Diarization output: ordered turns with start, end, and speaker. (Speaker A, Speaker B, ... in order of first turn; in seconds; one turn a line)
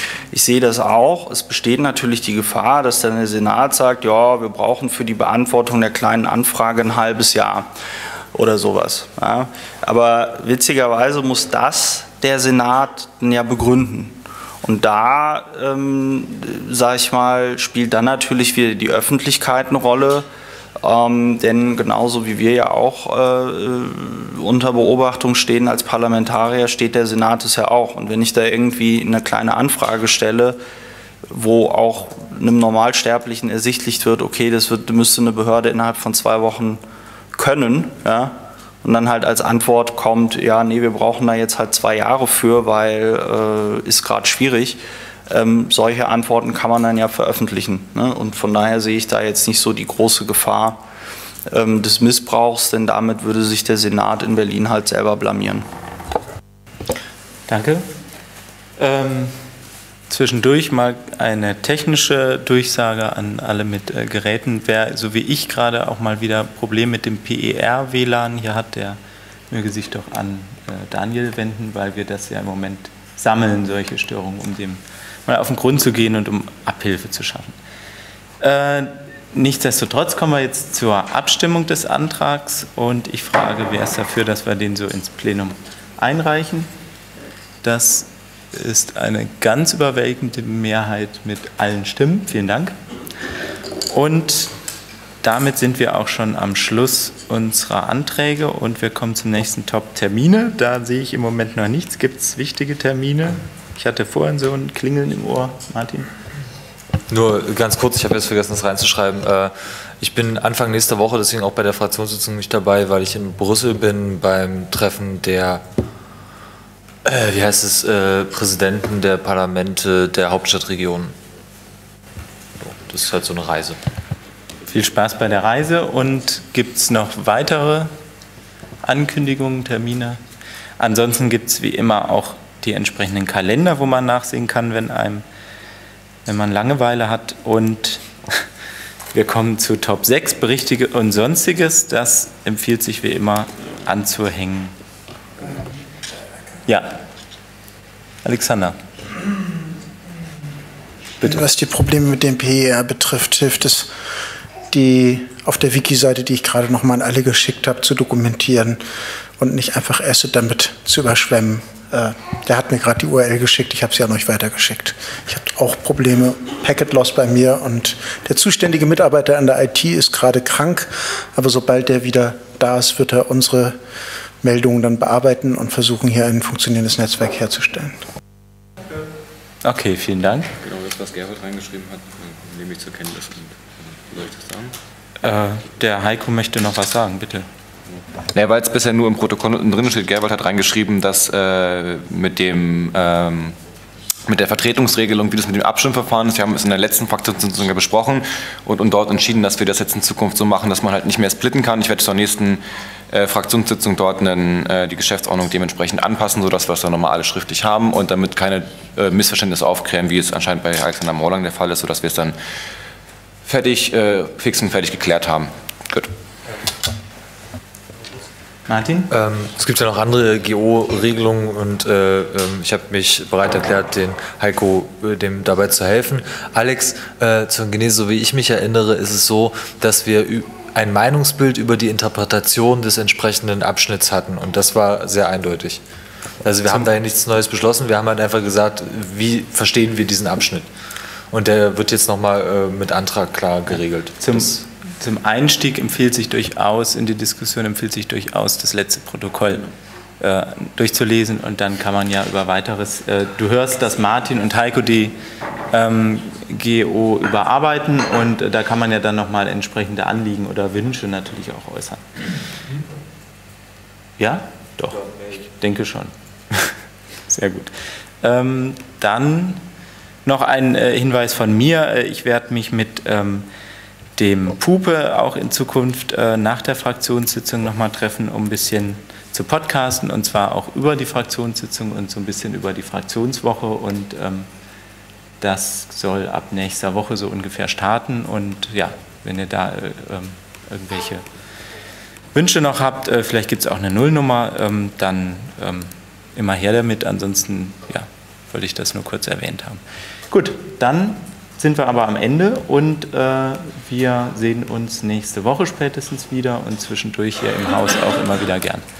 Speaker A: 0.3-7.7
Speaker A: 8.3-20.3
Speaker A: 20.8-30.6
Speaker A: 31.3-36.8
Speaker A: 37.3-50.8
Speaker A: 51.5-55.7
Speaker B: 57.5-57.9
Speaker B: 58.8-59.4
Speaker B: 60.1-69.0
Speaker B: 69.5-77.5
Speaker B: 78.4-86.7
Speaker B: 87.6-92.8
Speaker B: 93.9-94.5
Speaker B: 95.2-106.1
Speaker C: 107.1-115.6
Speaker C: 117.0-121.1
Speaker C: 122.6-123.8
Speaker B: 124.7-127.9
Speaker B: 128.8-130.2
Speaker B: 130.8-135.2
Speaker B: 136.2-138.4
Speaker B: 139.1-144.7
Speaker B: 146.7-147.0
Speaker B: 148.2-148.8
Speaker D: 151.2-153.9
Speaker D: 154.7-158.8
Speaker D: 159.4-173.8
Speaker D: 174.4-178.0
Speaker B: 179.6-180.5
Speaker E: 180.6-184.7
Speaker B: 185.2-187.5
Speaker F: 188.3-193.6
Speaker F: 194.3-212.3
Speaker F: 213.4-216.1
Speaker B: 218.7-219.1
Speaker C: 219.1-235.8
Speaker C: 236.4-240.7
Speaker C: 241.3-244.6
Speaker B: 244.2-249.7
Speaker B: 250.2-255.1
Speaker B: 255.7-262.0
Speaker B: 264.2-266.7
Speaker B: 267.3-269.6
Speaker B: 270.2-273.5
Speaker B: 274.2-284.5
Speaker B: 285.4-291.2
Speaker B: 292.3-308.8